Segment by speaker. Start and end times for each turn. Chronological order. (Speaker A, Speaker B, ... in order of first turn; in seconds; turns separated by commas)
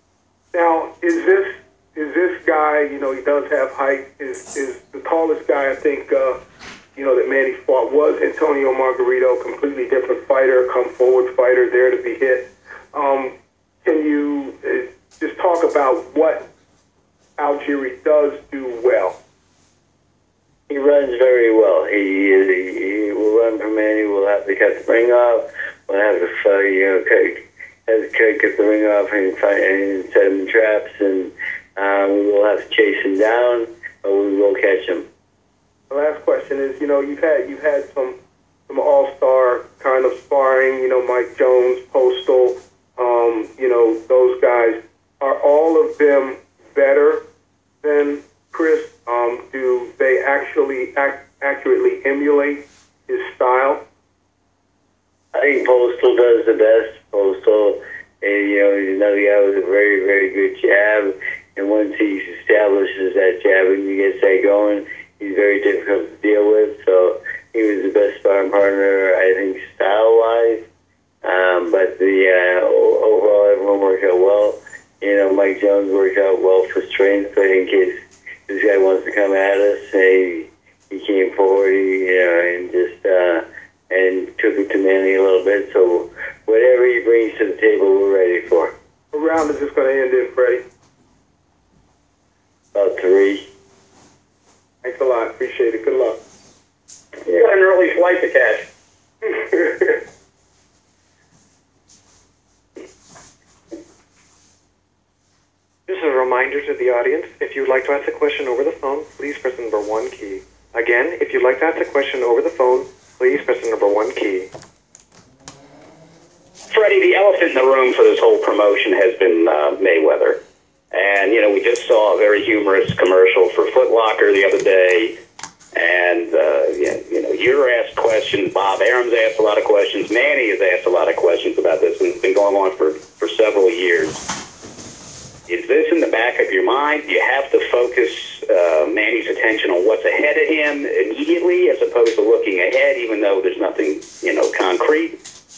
Speaker A: 0.5-6.4, Speaker A: 7.0-16.5, Speaker A: 17.4-19.2, Speaker B: 20.7-35.1, Speaker A: 35.9-38.2, Speaker A: 38.7-47.2, Speaker A: 47.8-53.8, Speaker B: 55.3-70.7, Speaker B: 71.2-78.0, Speaker B: 78.5-88.7, Speaker A: 89.1-90.6, Speaker B: 92.7-93.5, Speaker A: 94.8-96.2, Speaker C: 97.3-98.7, Speaker A: 99.2-100.0, Speaker D: 105.9-114.5, Speaker C: 116.7-120.4, Speaker C: 120.9-125.2, Speaker C: 125.8-134.2, Speaker C: 135.5-145.2